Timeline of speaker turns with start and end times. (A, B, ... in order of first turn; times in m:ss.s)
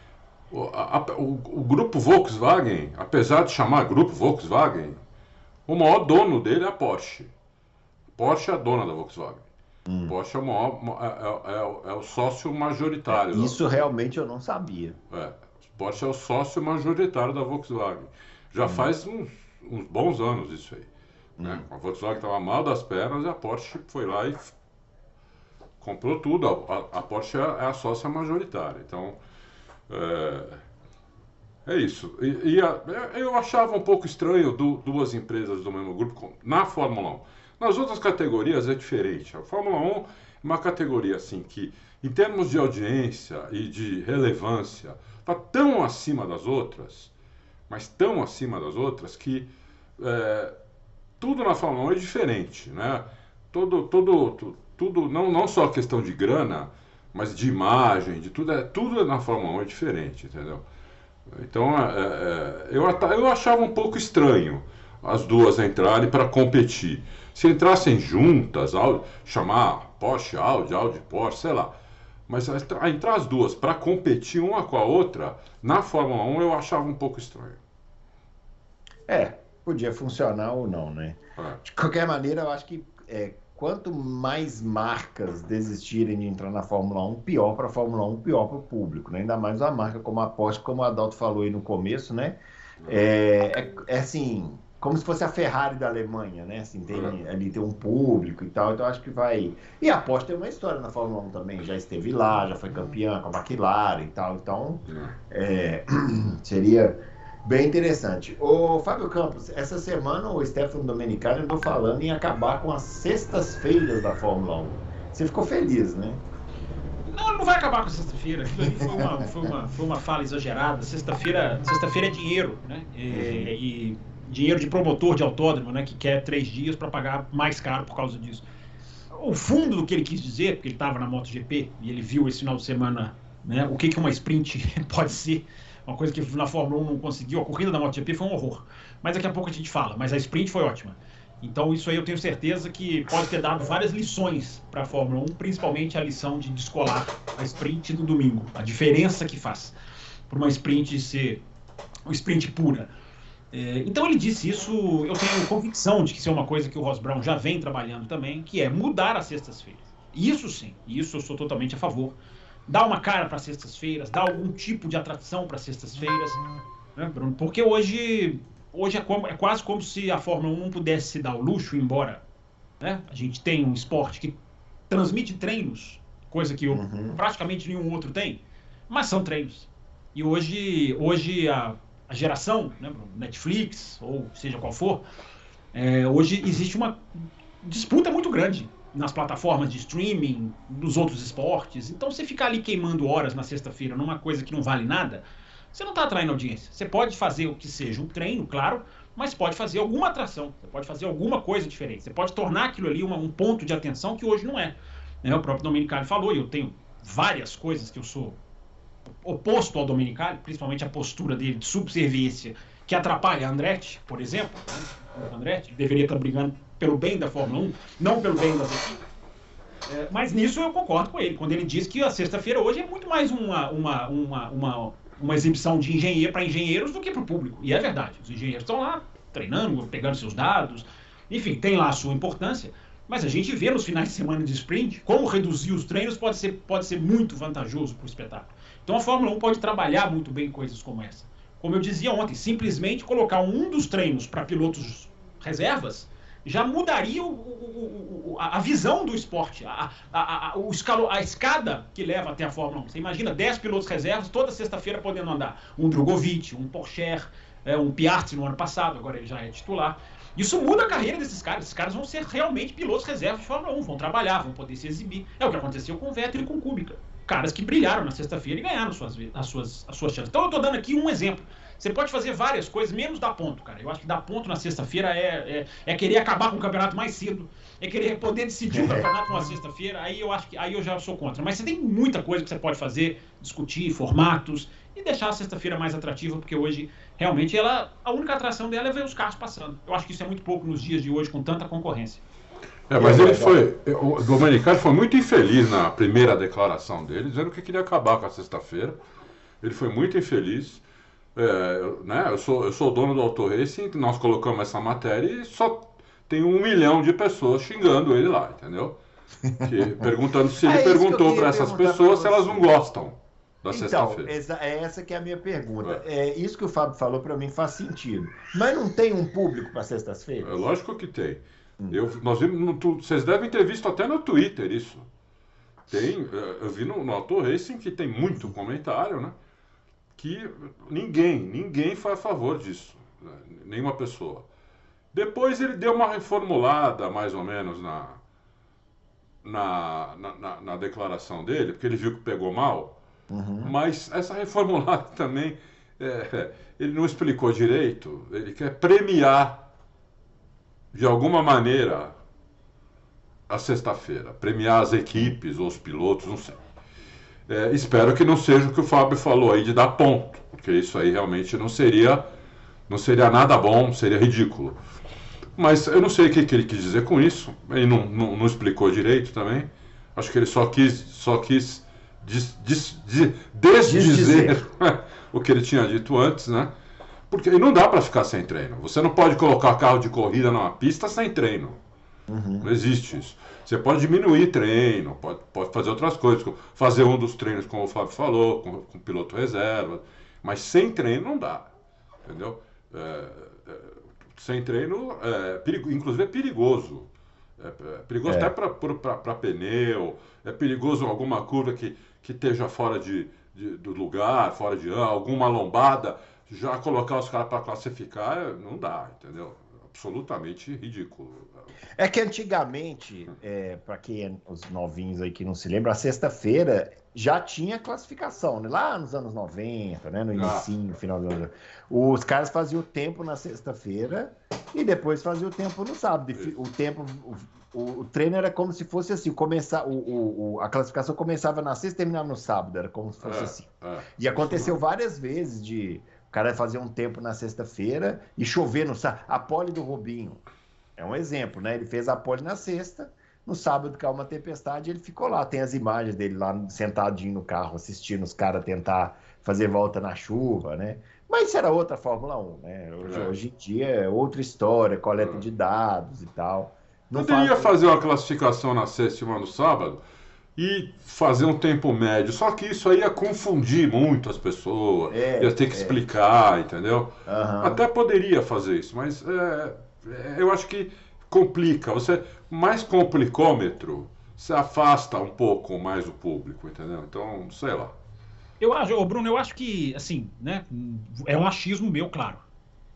0:00.5-0:05.0 A
0:05.7-0:07.3 A
0:08.1-0:09.4 A
0:09.9-0:10.1 B
0:10.0-0:13.6 A
0:13.1-0:15.0 B
0:15.1-0:20.9 A
0:18.6-0:18.9 B
0:21.4-0:21.6 B
0:21.4-0:24.5 A
0:25.8-0:29.2 A
0:29.9-0:30.6 A
0:31.6-0:47.1 A
0:47.7-0:50.5 A
0:51.2-1:00.6 A
1:01.3-1:11.7 A
1:12.3-1:17.6 A
1:19.1-1:56.2 B
1:36.9-1:37.2 A
1:44.9-1:45.1 A
1:57.1-2:08.4 C
1:58.7-1:59.5 B
2:03.1-2:03.5 B
2:09.1-2:29.7 C
2:30.3-2:31.4 C
2:32.0-2:32.9 C
2:33.5-2:46.4 C
2:47.0-2:52.2 C
2:52.8-2:54.4 C
2:54.9-3:05.0 C
2:56.7-2:57.2 B
3:05.7-3:28.4 C
3:29.2-3:39.0 C
3:39.8-4:52.2 C
4:38.7-4:39.1 B
4:52.9-4:59.0 A
4:53.0-4:53.6 B
4:59.6-5:00.8 A
5:01.3-5:09.0 A
5:09.6-5:14.3 A
5:10.6-5:12.7 B
5:13.7-5:20.5 B
5:20.4-5:25.1 A
5:25.9-5:29.3 A
5:30.2-5:34.4 A
5:35.1-5:38.2 A
5:39.4-5:43.0 A
5:43.3-5:43.7 B
5:43.6-5:49.6 A
5:50.9-5:52.2 A
5:53.5-5:56.6 A
5:57.5-6:02.3 A
6:02.9-6:04.8 A
6:05.6-6:16.7 A
6:13.8-6:14.6 B
6:17.3-6:21.8 A
6:22.3-6:22.7 B
6:22.6-6:31.7 A
6:32.2-6:51.7 A
6:38.2-6:38.5 B
6:52.0-7:20.4 B
7:00.3-7:00.7 A
7:13.2-7:14.7 A
7:21.0-7:37.7 B
7:33.0-7:33.3 A
7:37.1-7:40.0 A
7:40.6-7:57.9 A
7:45.1-7:46.0 B
7:47.2-7:47.8 B
7:58.6-8:02.4 C